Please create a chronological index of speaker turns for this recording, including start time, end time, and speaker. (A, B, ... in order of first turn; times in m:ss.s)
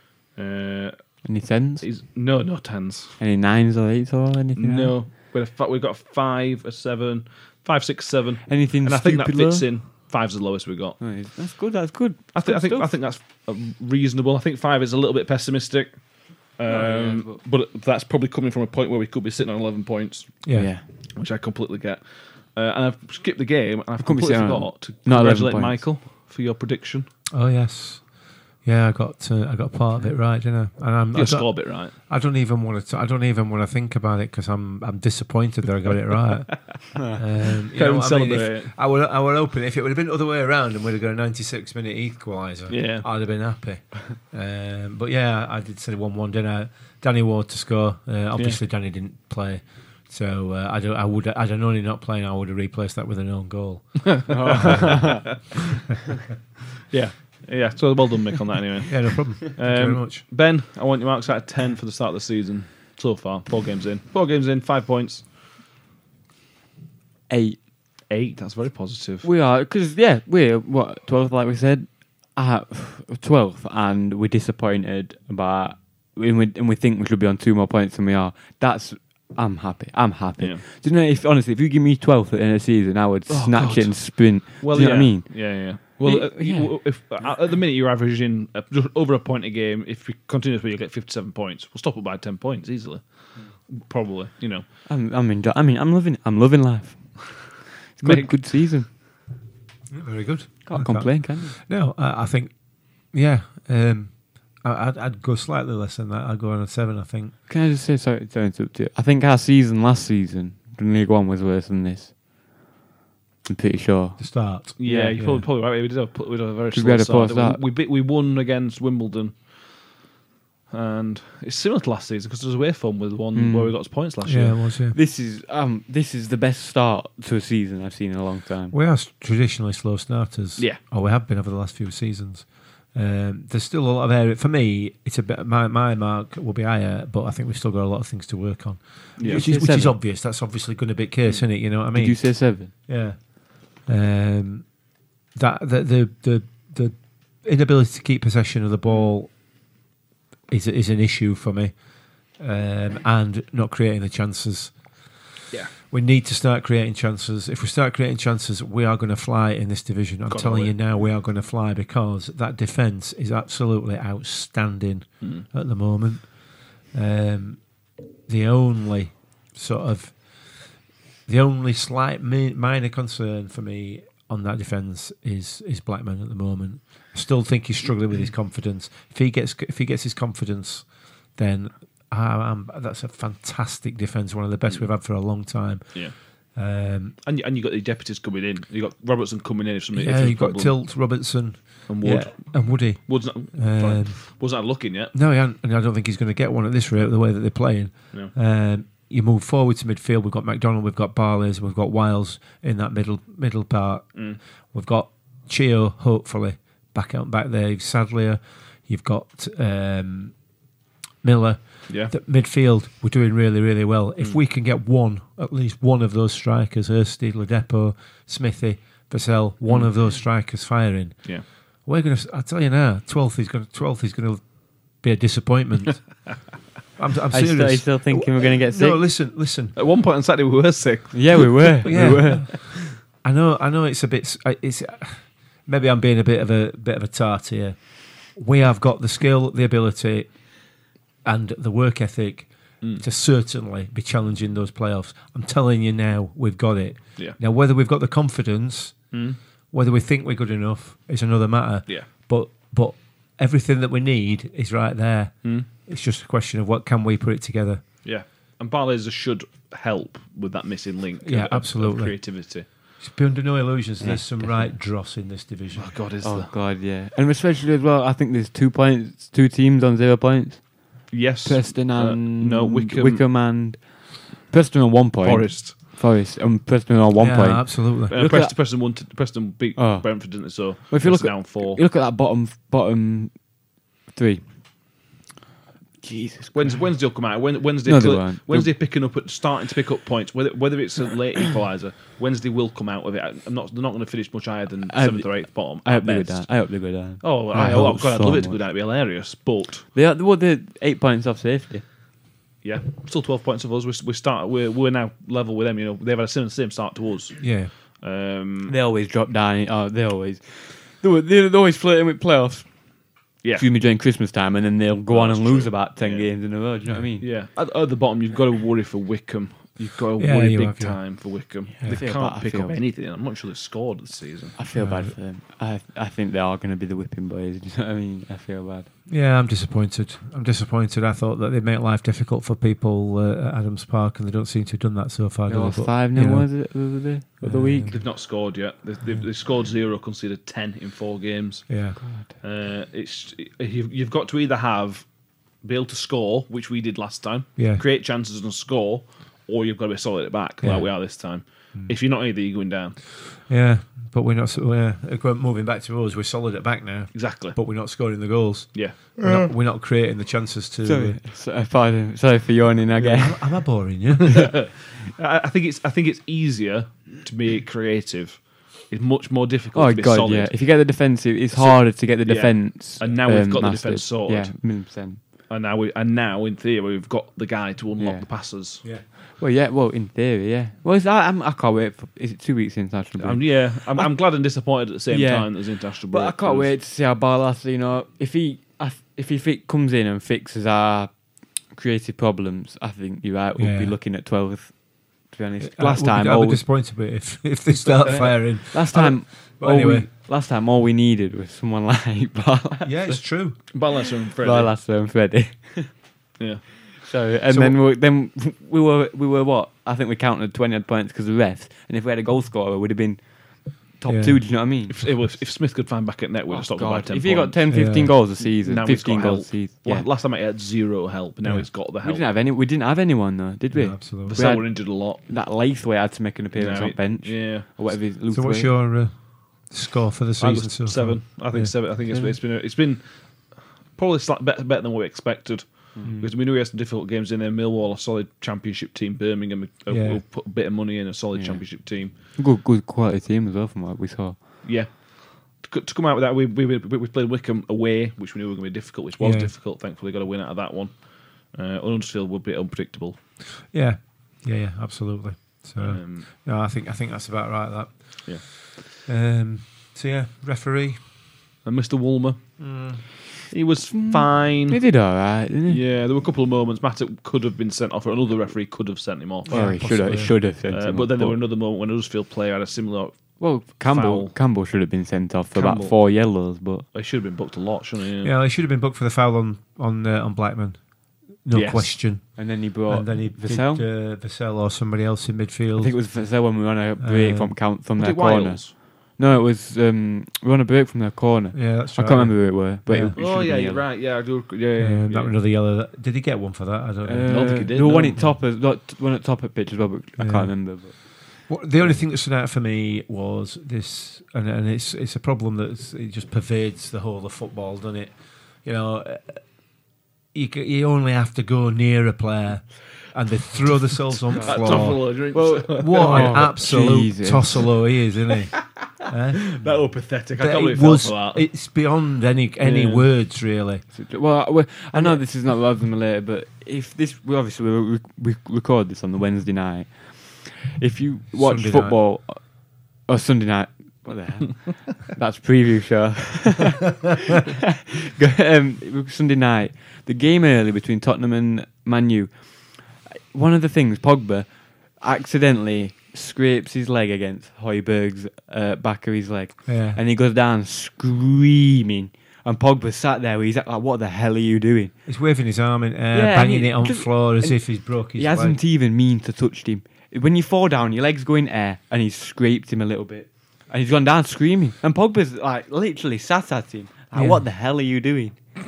0:00.3-0:01.2 A
0:01.2-0:01.9 B
0:01.8-0:03.2 A
0:03.2-0:05.0 B
0:04.6-0:11.0 A
0:08.5-0:09.7 B
0:11.0-0:12.9 B
0:12.3-0:20.4 A
0:16.7-0:17.4 B
0:20.4-0:20.7 C
0:20.5-0:20.8 B
0:21.0-0:27.1 A
0:24.0-0:25.9 B
0:27.3-0:54.9 C
0:31.1-0:31.9 A
0:37.7-0:38.7 A
0:42.7-0:43.0 A
0:54.1-0:55.6 A
0:54.3-0:55.2 B
0:56.9-1:05.3 A
0:58.9-1:00.2 C
1:07.3-1:07.6 B
1:08.1-1:09.3 A
1:09.2-1:26.9 B
1:20.4-1:20.6 A
1:23.3-1:33.0 A
1:33.6-1:34.6 A
1:34.8-1:38.9 B
1:38.0-1:38.3 A
1:39.9-1:42.6 C
1:40.6-1:41.5 B
1:43.1-1:47.4 C
1:47.5-1:52.2 B
1:53.4-1:55.2 B
1:54.2-1:55.4 C
1:54.8-1:59.4 A
1:56.7-1:57.6 B
2:00.7-2:04.6 A
2:03.3-2:03.7 B
2:04.2-2:05.0 C
2:04.9-2:08.8 B
2:08.7-2:24.7 C
2:19.2-2:19.4 A
2:19.2-2:19.9 B
2:21.9-2:22.7 B
2:25.3-2:29.3 C
2:30.5-2:31.7 C
2:32.4-2:34.8 C
2:35.8-2:47.6 C
2:40.3-2:40.7 A
2:45.2-2:45.5 A
2:48.3-2:50.7 C
2:51.2-3:07.2 C
3:07.2-3:10.7 A
3:09.9-3:14.2 C
3:11.9-3:15.1 A
3:15.1-3:24.2 C
3:24.7-3:30.3 C
3:31.2-3:44.4 C
3:31.9-3:32.1 A
3:45.0-3:46.1 C
3:47.0-3:49.7 C
3:47.3-3:49.0 B
3:49.8-3:52.6 A
3:51.1-3:52.5 B
3:51.8-3:57.8 C
3:58.3-4:00.4 C
4:01.2-4:09.0 C
4:09.1-4:09.4 A
4:09.7-4:17.8 C
4:18.0-4:22.6 A
4:21.2-4:22.2 C
4:23.0-4:25.9 C
4:24.0-4:24.8 B
4:25.7-4:26.5 A
4:26.2-4:38.5 B
4:31.1-4:33.3 A
4:35.2-4:35.8 A
4:37.2-4:38.1 C
4:38.1-4:41.8 A
4:39.8-4:43.5 B
4:44.1-4:44.4 B
4:46.0-4:46.9 B
4:46.5-4:59.8 A
4:47.8-4:48.7 B
4:54.9-4:58.6 B
4:59.9-5:01.9 B
5:02.6-5:08.7 A
5:07.4-5:07.7 C
5:08.7-5:12.7 B
5:13.6-5:17.3 B
5:15.1-5:16.3 A
5:17.2-5:24.5 A
5:20.2-5:21.0 C
5:21.7-5:22.8 B
5:24.6-5:28.9 B
5:24.7-5:25.2 C
5:29.1-5:36.7 C
5:35.5-5:38.0 B
5:37.4-5:38.0 C
5:37.9-5:45.1 A
5:41.7-5:42.0 C
5:42.0-5:42.3 B
5:45.6-5:53.0 A
5:47.6-5:47.8 C
5:50.6-5:51.0 C
5:53.5-6:01.2 C
5:57.1-5:57.6 A
5:58.7-5:59.2 A
6:00.8-6:03.6 B
6:03.0-6:04.6 C
6:04.2-6:10.6 A
6:09.7-6:15.2 B
6:11.5-6:14.6 A
6:15.5-6:18.8 A
6:18.0-6:24.1 B
6:23.2-6:26.7 A
6:25.1-6:36.6 B
6:33.6-6:33.9 C
6:35.6-6:40.1 C
6:37.8-6:38.3 A
6:38.0-6:46.0 B
6:42.8-6:43.6 C
6:43.7-6:44.7 A
6:46.4-6:46.8 A
6:46.9-6:55.2 B
6:47.5-6:47.8 C
6:54.1-6:54.4 C
6:54.9-7:02.2 A
6:56.5-7:00.1 B
6:57.7-6:58.1 C
7:02.0-7:08.7 B
7:03.7-7:04.4 C
7:04.2-7:05.2 A
7:06.5-7:07.7 A
7:08.3-7:11.7 C
7:10.4-7:22.1 A
7:12.1-7:12.4 B
7:16.0-7:16.3 B
7:19.9-7:20.2 C
7:21.4-7:24.6 B
7:24.6-7:33.2 A
7:29.2-7:29.5 C
7:33.7-7:41.0 C
7:35.8-7:36.3 A
7:41.6-7:42.6 A
7:42.6-7:43.0 C
7:43.5-7:44.8 A
7:43.9-7:45.8 B
7:45.6-7:50.0 A
7:49.5-7:51.4 B
7:49.5-7:50.4 C
7:50.7-7:54.3 A
7:53.4-7:56.9 B
7:55.5-7:56.0 A
7:56.9-7:58.3 A
7:58.2-8:00.8 C
8:01.4-8:06.0 C
8:01.5-8:02.0 A
8:02.4-8:03.8 B
8:05.8-8:13.8 B
8:07.0-8:07.6 C
8:08.0-8:08.7 A
8:11.5-8:13.2 C
8:13.1-8:15.3 A
8:14.8-8:18.4 C
8:17.0-8:21.2 B
8:17.2-8:18.2 A
8:20.2-8:29.4 C
8:30.3-8:39.6 C
8:34.3-8:37.8 B
8:34.4-8:37.0 A
8:39.5-8:41.4 A
8:40.4-8:43.9 C
8:42.6-8:43.1 A
8:43.9-9:14.9 B
8:44.9-8:45.2 C
8:51.3-8:52.0 C
9:09.7-9:10.0 C
9:15.1-9:18.6 C
9:16.1-9:28.4 B
9:27.1-9:27.4 C